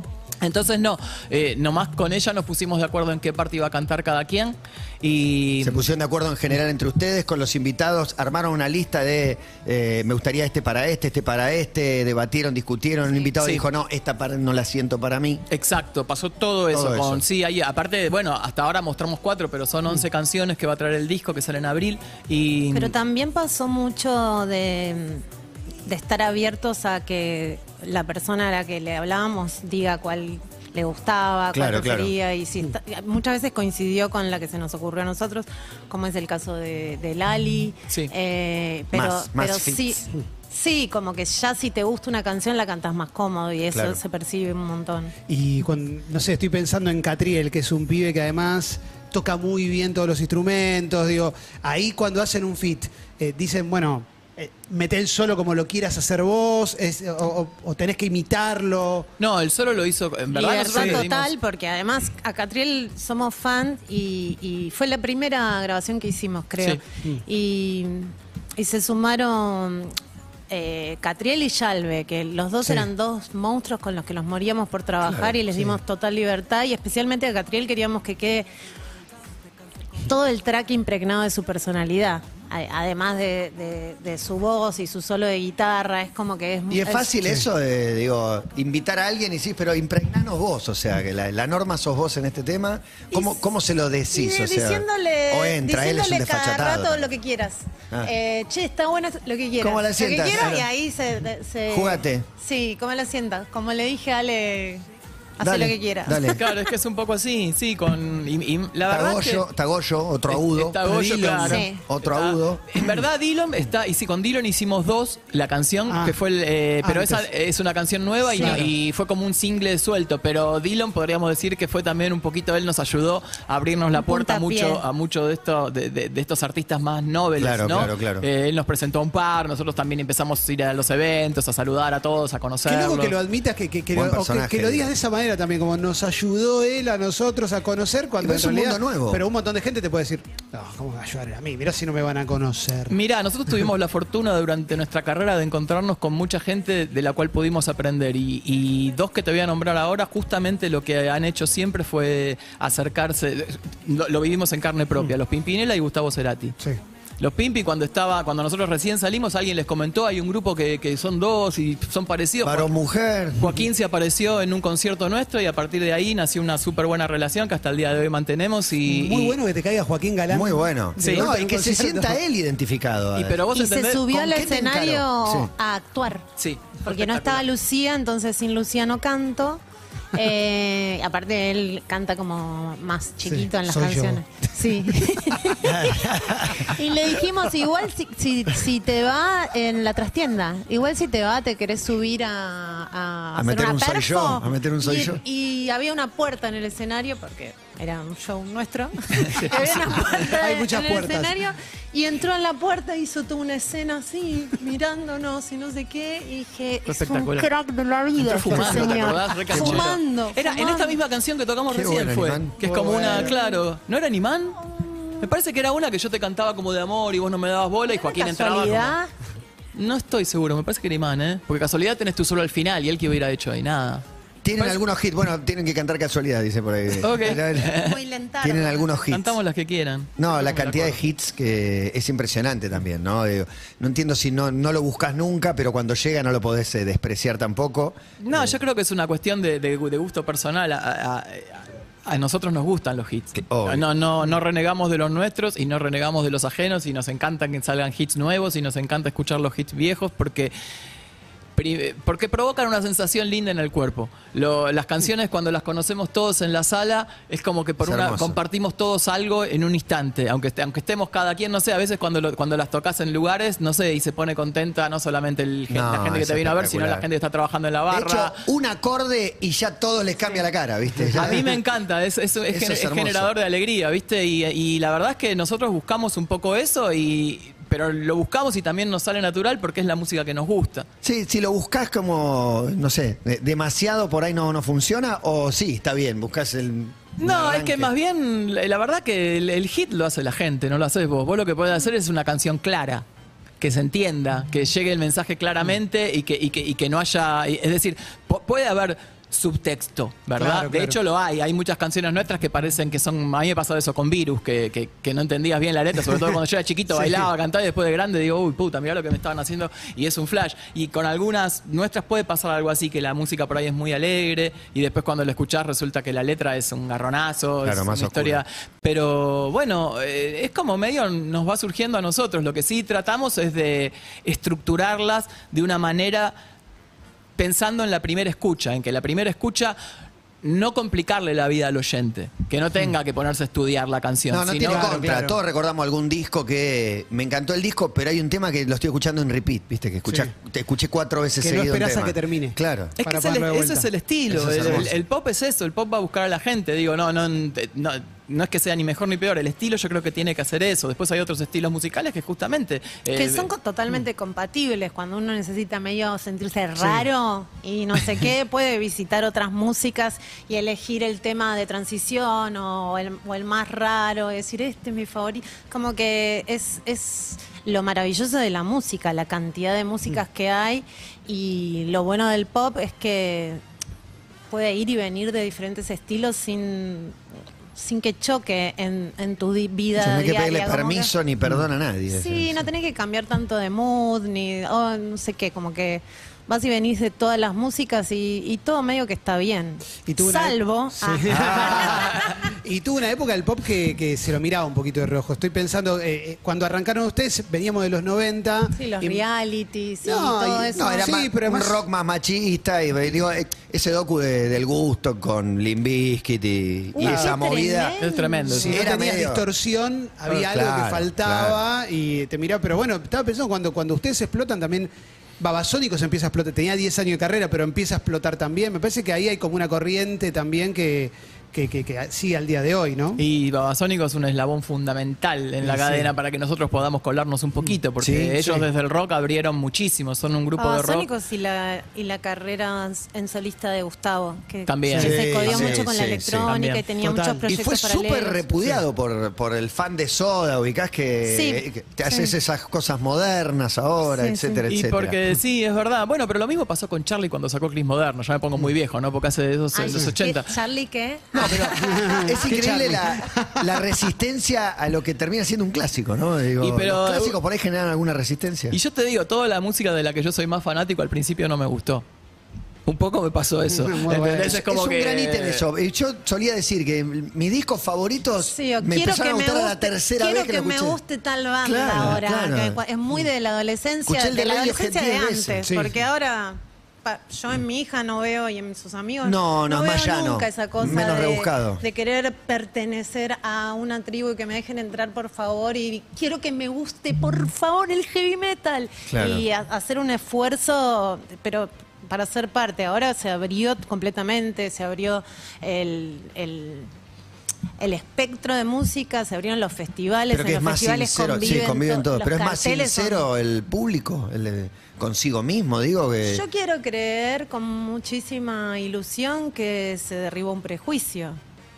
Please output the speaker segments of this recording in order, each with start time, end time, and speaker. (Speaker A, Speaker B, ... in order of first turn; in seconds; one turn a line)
Speaker A: 0.4-5.8
Speaker B: 5.6-15.4
Speaker A: 13.4-13.6
Speaker A: 15.5-22.9
Speaker B: 16.7-17.2
Speaker C: 22.7-25.2
Speaker C: 25.9-45.1
Speaker B: 31.5-32.1
Speaker B: 38.9-40.0
Speaker B: 43.7-44.0
Speaker D: 45.3-59.1
Speaker A: 59.2-61.3
Speaker C: 60.3-69.9
Speaker D: 60.7-61.0
Speaker C: 70.5-78.5
Speaker B: 75.0-75.3
Speaker C: 80.0-87.1
Speaker B: 86.7-97.1
Speaker C: 94.1-104.8
Speaker B: 99.6-100.6
Speaker B: 101.7-102.2
Speaker C: 105.4-106.5
Speaker B: 105.4-106.4
Speaker A: 106.3-109.4
Speaker B: 108.9-110.9
Speaker A: 110.3-133.2
Speaker D: 110.8-111.6
Speaker C: 111.4-111.8
Speaker B: 111.8-112.9
Speaker D: 115.9-116.2
Speaker D: 116.8-117.2
Speaker C: 118.3-118.6
Speaker D: 118.3-118.7
Speaker C: 123.9-124.8
Speaker B: 127.4-128.3
Speaker D: 132.7-143.0
Speaker B: 133.9-134.9
Speaker B: 138.2-139.2
Speaker A: 142.9-156.6
Speaker A: 157.2-162.7
Speaker B: 162.4-163.6
Speaker A: 163.4-169.4
Speaker D: 168.8-172.2
Speaker B: 170.3-173.4
Speaker A: 171.0-171.3
Speaker A: 173.2-174.5
Speaker C: 173.5-176.2
Speaker B: 174.1-175.5
Speaker A: 176.4-177.4
Speaker C: 176.8-179.6
Speaker C: 180.1-211.0
Speaker D: 183.3-184.2
Speaker B: 185.6-186.8
Speaker B: 193.3-195.2
Speaker D: 199.5-201.3
Speaker A: 206.8-207.5
Speaker A: 208.2-214.7
Speaker B: 208.5-209.8
Speaker B: 211.7-213.3
Speaker D: 212.6-213.3
Speaker C: 213.3-213.6
Speaker C: 214.7-215.3
Speaker A: 215.2-218.9
Speaker C: 217.9-219.1
Speaker A: 219.7-224.0
Speaker B: 224.4-227.9
Speaker A: 227.0-228.0
Speaker C: 227.7-229.1
Speaker B: 228.4-229.4
Speaker A: 229.1-231.0
Speaker B: 230.2-238.5
Speaker A: 238.2-250.5
Speaker B: 243.3-243.8
Speaker A: 251.6-268.4
Speaker B: 257.8-258.4
Speaker B: 265.7-267.1
Speaker B: 267.9-271.5
Speaker A: 271.1-280.9
Speaker B: 272.5-273.3
Speaker B: 281.0-287.9
Speaker A: 287.2-293.0
Speaker A: 293.6-326.3
Speaker D: 300.4-301.0
Speaker D: 306.9-307.3
Speaker B: 317.6-318.4
Speaker A: 327.4-329.8
Speaker A: 330.4-335.0
Speaker B: 334.3-342.9
Speaker D: 334.6-335.4
Speaker D: 341.4-344.9
Speaker A: 343.0-353.5
Speaker B: 344.3-344.9
Speaker C: 353.1-373.6
Speaker C: 374.5-377.2
Speaker C: 377.8-381.1
Speaker B: 380.0-382.6
Speaker C: 382.1-392.3
Speaker D: 390.1-399.2
Speaker A: 391.5-392.1
Speaker C: 398.7-401.2
Speaker D: 400.0-401.8
Speaker B: 400.7-408.0
Speaker C: 406.9-408.8
Speaker D: 407.0-407.3
Speaker A: 408.0-408.9
Speaker D: 408.5-423.2
Speaker B: 408.6-409.5
Speaker B: 410.3-411.6
Speaker A: 423.2-431.1
Speaker D: 425.6-426.1
Speaker B: 428.0-428.5
Speaker C: 430.6-438.5
Speaker A: 434.7-435.8
Speaker B: 435.0-436.5
Speaker A: 436.5-436.8
Speaker D: 437.0-437.4
Speaker B: 437.4-445.3
Speaker C: 441.2-442.3
Speaker C: 444.1-444.6
Speaker A: 444.7-450.5
Speaker C: 449.7-452.1
Speaker B: 451.3-458.8
Speaker D: 451.4-453.9
Speaker A: 456.6-457.4
Speaker A: 458.7-462.0
Speaker A: 462.9-465.6
Speaker D: 463.7-464.6
Speaker B: 464.4-471.0
Speaker C: 468.4-496.9
Speaker B: 471.6-472.8
Speaker B: 474.1-475.7
Speaker D: 475.6-475.9
Speaker B: 479.2-481.8
Speaker B: 489.1-489.4
Speaker C: 497.8-503.2
Speaker B: 500.3-506.4
Speaker C: 506.2-511.4